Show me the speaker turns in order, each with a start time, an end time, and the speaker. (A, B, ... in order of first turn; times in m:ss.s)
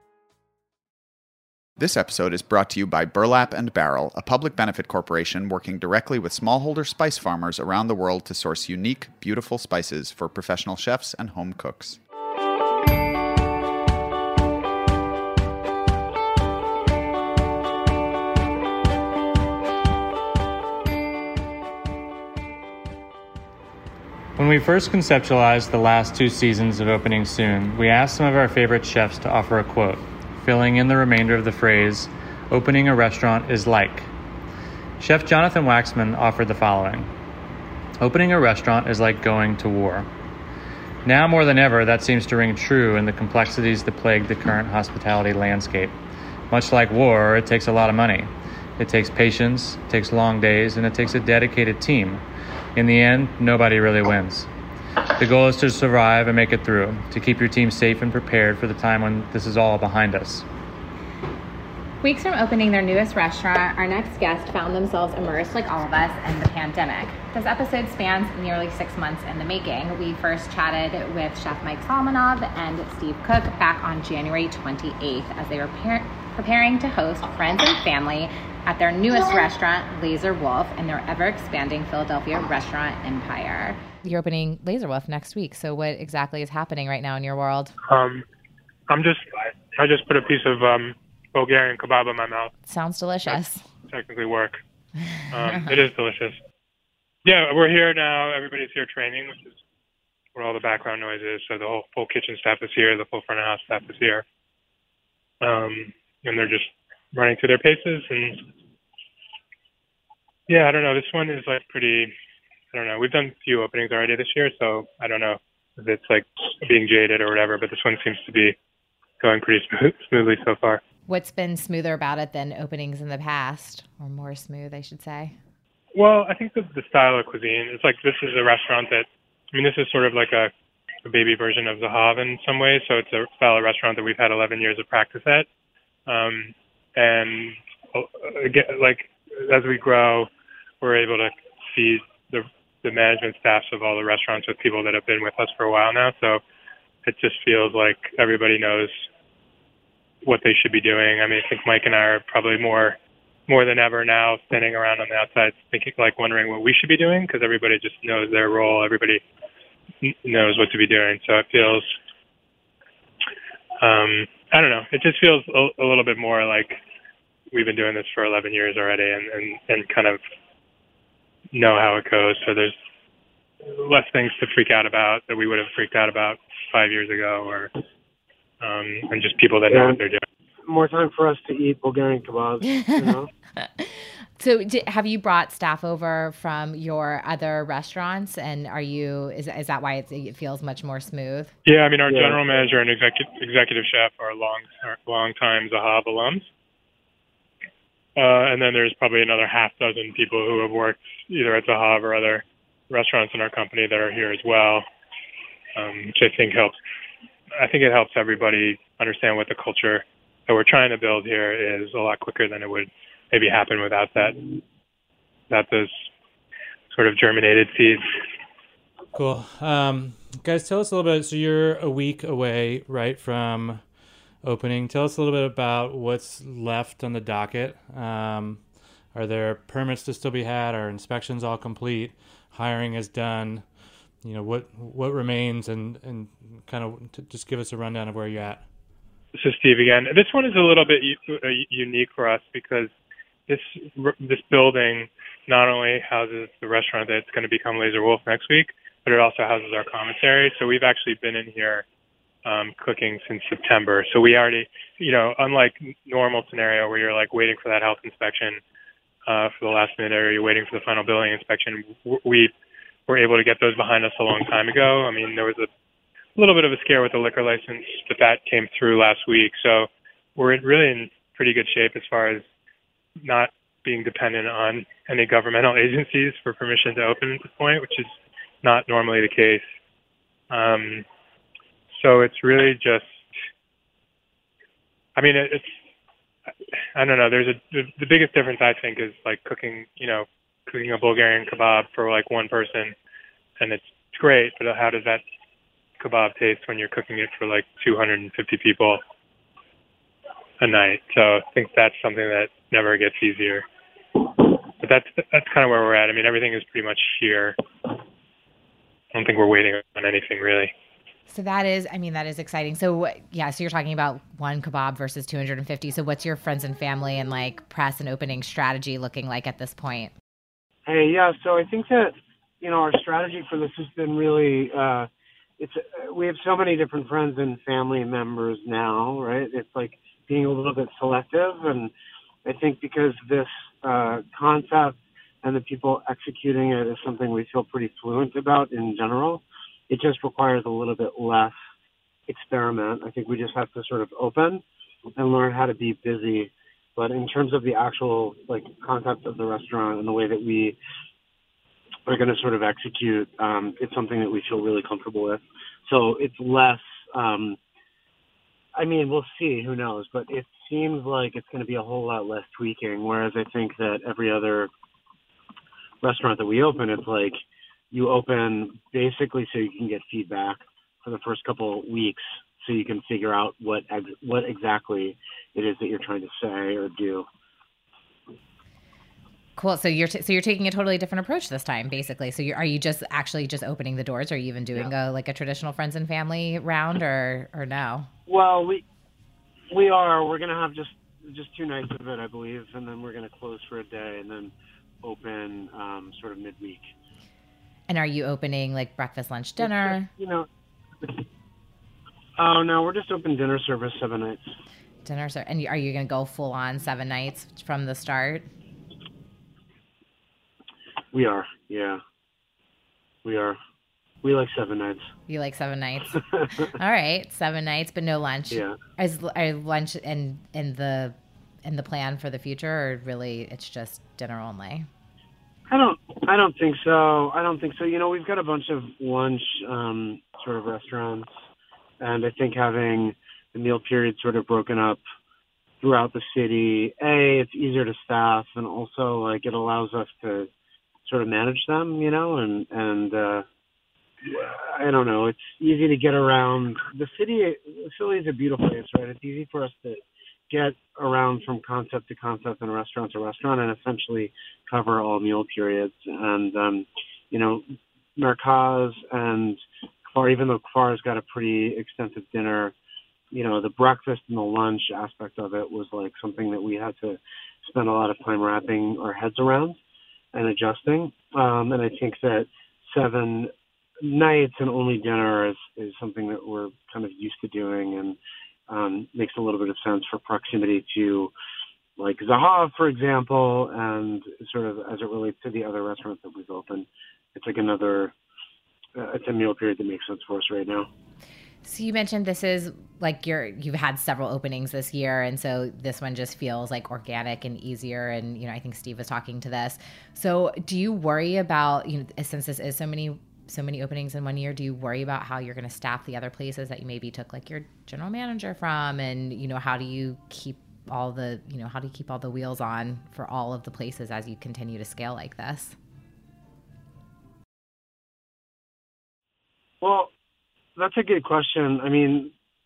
0:01.8-0:12.0 A
0:24.4-0:34.1 B
0:35.0-0:37.1 B
0:38.0-0:40.1 B
0:41.0-0:46.0 B
0:46.5-0:52.2 B
0:52.8-0:54.5 B
0:55.2-1:00.4 B
1:02.0-1:27.7 C
1:27.8-1:28.2 D
1:28.9-1:32.5 D
1:32.7-1:33.6 C
1:33.3-1:34.6 D
1:35.3-1:36.4 D
1:37.2-1:39.6 D
1:40.4-1:44.2 D
1:45.4-1:48.4 D
1:50.5-1:52.1 D
1:52.7-1:58.6 D
1:59.2-2:00.8 D
2:01.1-2:05.4 C
2:06.0-2:10.5 D
2:11.0-2:15.5 D
2:16.1-2:20.3 D
2:20.8-2:26.4 D
2:27.1-2:29.0 D
2:30.2-2:33.0 D
2:33.5-2:39.2 D
2:40.0-2:41.9 D
2:43.8-2:46.8 D
2:47.5-2:50.2 D
2:51.5-2:52.7 D
2:53.6-2:57.7 D
2:58.6-3:00.2 D
2:59.7-3:00.0 E
3:00.7-3:03.3 E
3:02.9-3:11.5 C
3:11.7-3:16.4 D
3:12.1-3:12.7 E
3:18.2-3:24.8 D
3:25.8-3:26.8 D
3:27.6-3:34.6 D
3:35.5-3:36.1 D
3:36.9-3:38.0 D
3:39.1-3:43.8 B
3:44.4-3:53.7 B
3:54.2-3:58.7 B
3:59.4-4:02.9 D
4:03.5-4:11.8 D
4:12.4-4:18.6 D
4:19.3-4:22.5 D
4:23.1-4:25.7 D
4:26.4-4:32.4 D
4:33.2-4:38.1 D
4:38.6-4:39.6 D
4:40.5-4:41.0 D
4:41.9-4:43.1 D
4:45.2-4:45.8 D
4:47.0-4:53.0 D
4:53.6-4:55.2 D
4:56.0-4:59.0 D
5:00.6-5:03.7 D
5:04.2-5:07.6 D
5:09.1-5:10.7 D
5:11.3-5:20.1 C
5:20.9-5:31.9 E
5:32.4-5:41.6 E
5:42.3-5:44.6 E
5:45.2-5:50.8 E
5:52.1-5:57.6 E
5:58.8-6:04.7 E
6:06.0-6:07.4 E
6:07.9-6:17.3 E
6:19.6-6:28.1 C
6:28.3-6:28.8 E
6:29.7-6:36.9 E
6:37.9-6:40.1 C
6:39.6-6:40.5 E
6:42.4-6:44.4 E
6:45.0-6:48.5 C
6:51.1-6:52.0 E
6:53.2-6:53.6 E
6:54.2-6:55.1 E
6:55.3-7:04.9 C
6:56.3-6:56.7 E
6:58.5-6:58.8 E
7:05.7-7:11.3 E
7:12.0-7:15.0 E
7:15.8-7:20.5 E
7:21.1-7:23.5 E
7:24.2-7:42.8 E
7:43.3-7:49.8 E
7:50.3-7:53.5 E
7:54.0-8:01.3 E
8:02.0-8:08.1 E
8:09.0-8:10.9 E
8:11.6-8:35.8 C
8:39.8-8:40.1 E
8:40.8-8:42.3 E